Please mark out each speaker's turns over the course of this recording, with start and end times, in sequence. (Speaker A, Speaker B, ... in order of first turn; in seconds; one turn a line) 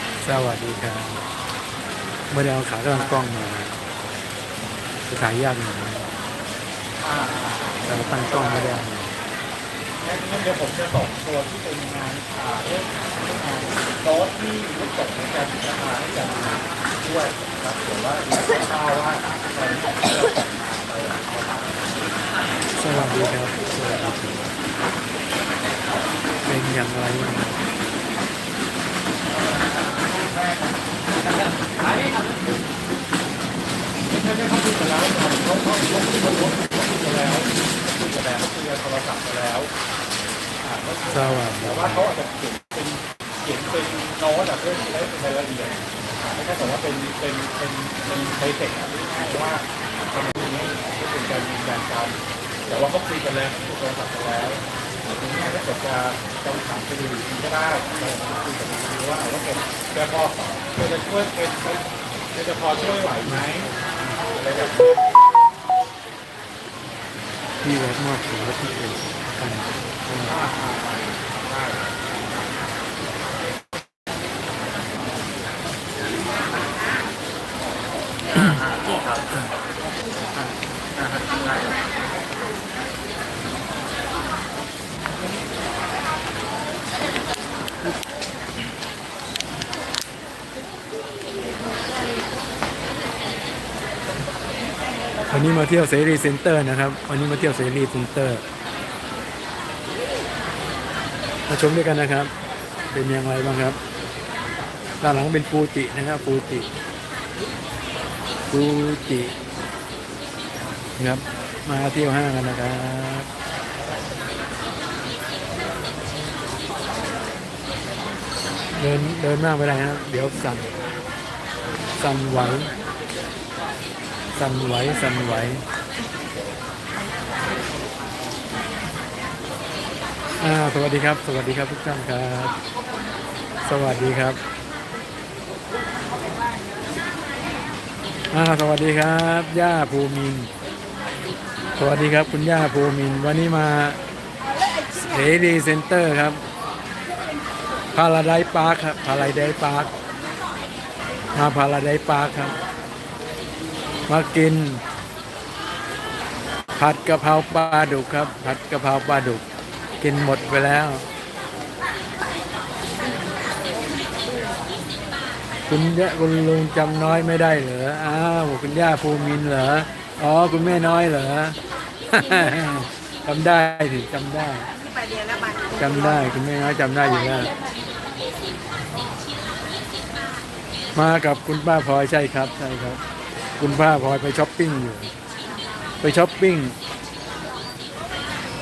Speaker A: 0.2-1.2
Speaker A: 2.3-3.7
Speaker B: 2.9-3.2
Speaker A: 5.1-6.1
Speaker B: 7.0-8.8
Speaker A: 7.9-9.1
Speaker B: 10.0-21.9
Speaker A: 22.7-24.5
Speaker B: 22.9-23.5
Speaker A: 26.4-27.6
Speaker B: 34.1-39.7
Speaker B: 40.6-63.7
Speaker A: 41.1-42.1
Speaker A: 63.2-64.2
Speaker B: 64.3-65.0
Speaker A: 67.6-70.5
Speaker B: 70.2-71.9
Speaker A: 95.3-98.4
Speaker A: 101.5-102.3
Speaker A: 102.9-103.8
Speaker A: 105.0-106.7
Speaker A: 108.5-109.3
Speaker A: 111.0-113.3
Speaker A: 118.8-120.8
Speaker A: 122.0-122.7
Speaker A: 124.3-125.6
Speaker A: 130.4-132.5
Speaker A: 133.6-134.4
Speaker A: 138.3-140.5
Speaker A: 141.8-144.0
Speaker A: 145.0-146.4
Speaker A: 147.9-149.9
Speaker A: 151.3-152.6
Speaker A: 154.1-154.8
Speaker A: 156.8-159.4
Speaker A: 160.0-161.0
Speaker A: 165.7-171.6
Speaker A: 172.1-174.7
Speaker A: 175.8-177.5
Speaker A: 180.9-183.0
Speaker A: 183.6-185.1
Speaker A: 186.0-186.8